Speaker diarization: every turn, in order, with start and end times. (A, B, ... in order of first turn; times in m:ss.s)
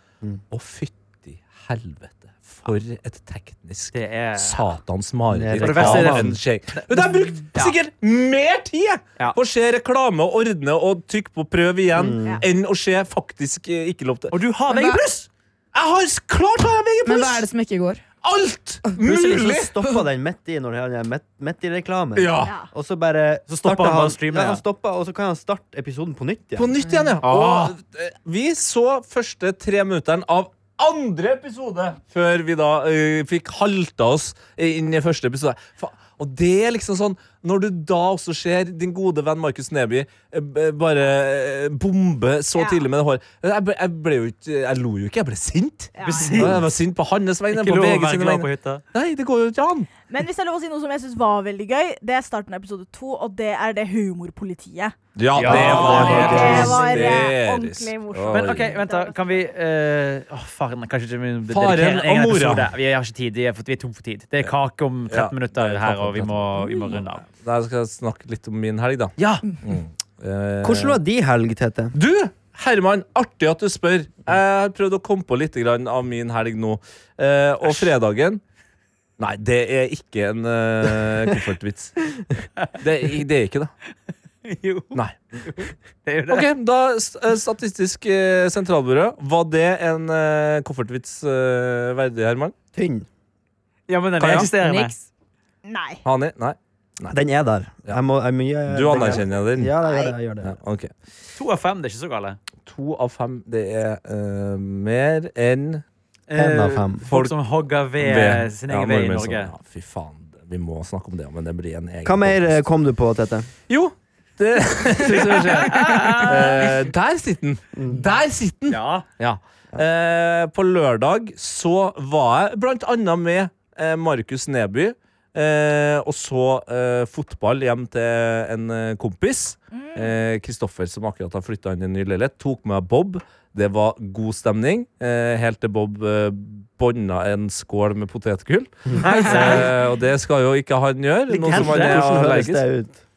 0:00.5-0:14.3 A
0:03.9-0:04.6 B
0:05.3-0:06.4 C
0:05.6-0:07.8 B
0:11.9-0:12.4 C
0:14.3-0:15.3 B
0:14.7-0:15.0 D
0:15.7-0:17.4 A
0:17.0-0:18.0 D
0:18.2-0:19.7 A
0:19.0-0:26.7 C
0:22.2-0:22.5 A
0:23.5-0:24.6 B
0:26.6-0:49.9 A
0:27.2-0:27.7 B
0:42.6-0:42.8 E
0:46.0-0:46.6 E
0:46.0-0:46.6 B
0:47.5-0:48.8 B
0:50.1-0:54.9 E
0:55.2-0:58.7 A
0:55.3-0:57.0 B
0:55.4-0:57.2 C
0:55.7-0:59.4 E
0:58.3-1:07.2 B
1:01.5-1:02.7 A
1:05.1-1:11.0 A
1:09.2-1:09.4 B
1:10.6-1:11.9 C
1:11.9-1:18.4 A
1:17.6-1:17.9 B
1:19.2-1:22.0 A
1:22.8-1:23.7 A
1:24.4-1:26.4 B
1:24.9-1:25.2 A
1:26.3-1:32.5 A
1:32.7-1:33.1 C
1:33.9-1:34.9 B
1:34.2-1:34.5 A
1:34.4-1:35.0 D
1:35.6-1:36.0 E
1:36.0-1:37.2 A
1:37.1-1:40.6 C
1:38.7-1:39.7 A
1:39.8-1:40.1 E
1:40.4-1:40.9 A
1:41.4-1:42.4 B
1:42.6-1:45.8 A
1:46.3-1:49.5 B
1:46.3-1:47.0 C
1:47.1-1:47.4 A
1:48.0-1:52.6 A
1:52.0-1:53.5 C
1:53.7-2:22.7 A
1:55.0-1:56.8 B
1:57.8-1:58.0 C
1:58.7-1:59.0 B
2:09.7-2:10.1 E
2:18.9-2:19.8 B
2:21.3-2:22.3 B
2:21.4-2:23.0 C